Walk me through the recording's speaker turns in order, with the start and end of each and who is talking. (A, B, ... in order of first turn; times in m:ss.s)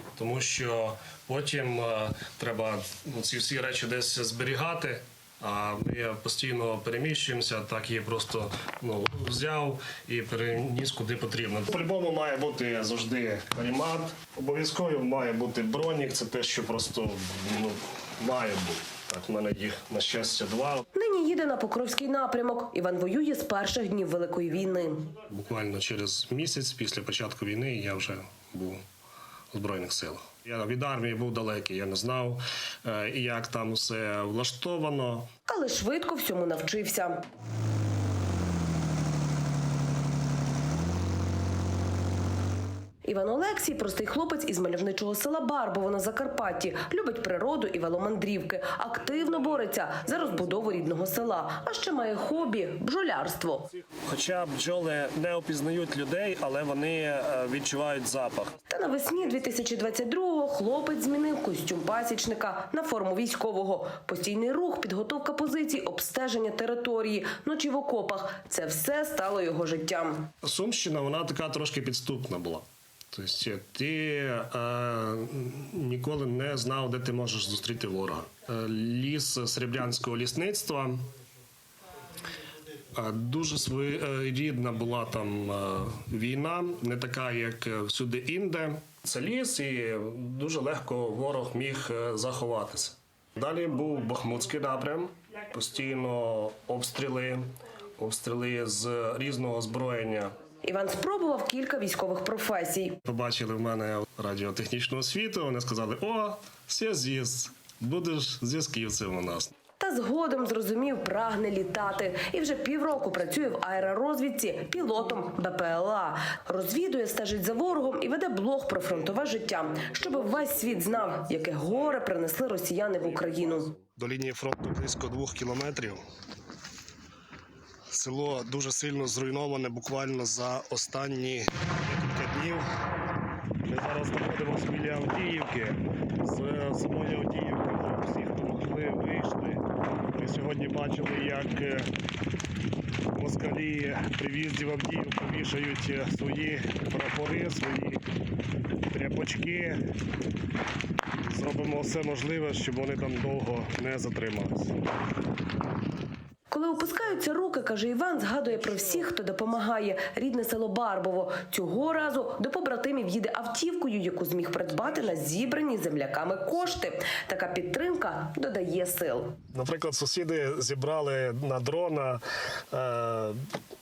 0:00.2-0:20.8 A
0:20.9-0:25.1 B
0:25.3-0:28.8 A
0:29.5-0:35.3 A
0:35.5-0:37.2 B
0:43.0-0:53.7 B
0:54.0-0:58.6 A
0:58.7-1:10.3 B
1:10.4-1:21.1 A
1:22.9-1:40.3 A
1:40.6-1:43.0 B
1:43.0-1:49.5 A
1:49.8-2:03.7 B
2:03.2-2:06.0 A
2:07.9-2:12.6 A
2:13.6-2:19.6 A
2:20.1-2:21.9 A
2:23.1-2:28.0 A
2:28.9-2:29.8 A
2:31.2-2:34.7 A
2:36.5-2:49.4 B
2:49.5-2:53.5 A